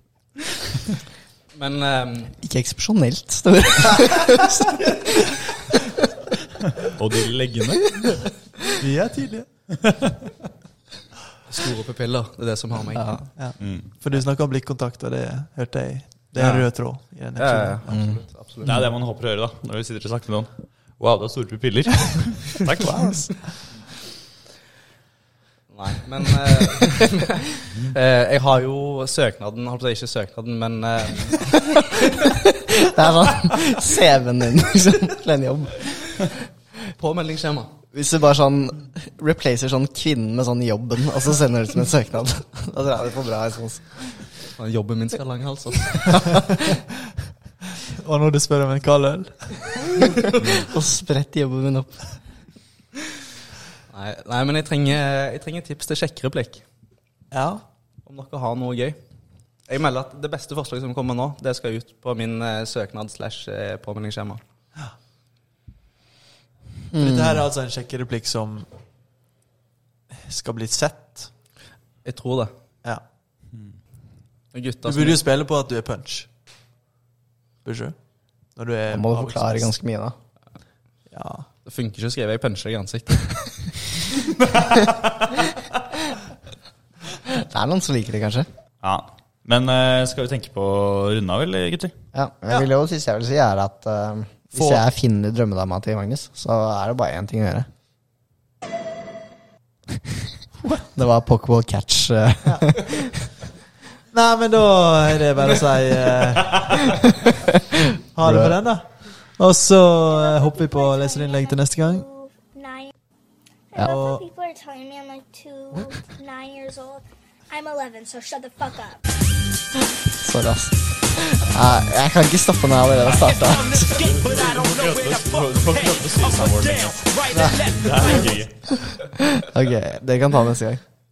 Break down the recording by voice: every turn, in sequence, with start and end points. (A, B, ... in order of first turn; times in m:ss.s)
0:01.5-0:02.4 A
0:02.4-0:05.9 B
0:06.8-0:08.1 C
0:08.7-0:09.5 D
0:11.5-0:13.1 A
0:13.0-0:13.2 B
0:13.4-0:18.0 D
0:13.6-0:13.9 C
0:17.4-0:18.7 A
0:18.6-0:23.3 C
0:22.8-0:23.2 D
0:25.7-0:31.5 A
0:31.7-0:36.3 B
0:36.9-0:37.7 A
0:37.9-0:44.0 B
0:44.6-0:46.1 A
0:46.1-0:46.8 B
0:47.9-0:49.8 D
0:50.6-0:52.0 B
0:53.9-0:56.6 A
0:57.3-0:57.6 D
0:58.0-0:59.0 A
0:59.7-1:04.4 A
1:06.9-1:07.4 B
1:06.9-1:08.7 D
1:10.1-1:11.3 D
1:12.0-1:12.5 A
1:14.5-1:15.2 A
1:14.8-1:16.3 D
1:17.6-1:18.0 D
1:18.6-1:19.7 D
1:18.9-1:20.2 B
1:21.1-1:21.4 D
1:21.6-1:23.3 A
1:27.1-1:28.5 B
1:28.8-1:31.9 C
1:32.1-1:37.7 B
1:34.5-1:34.8 D
1:40.9-1:43.3 B
1:42.4-1:42.7 D
1:44.1-1:47.0 D
1:48.1-1:52.0 D
1:48.2-1:48.6 B
1:50.0-1:52.9 E
1:53.7-1:59.0 E
1:53.8-1:54.2 D
2:00.1-2:04.0 B
2:03.3-2:08.8 C
2:07.3-2:07.7 D
2:09.0-2:10.8 B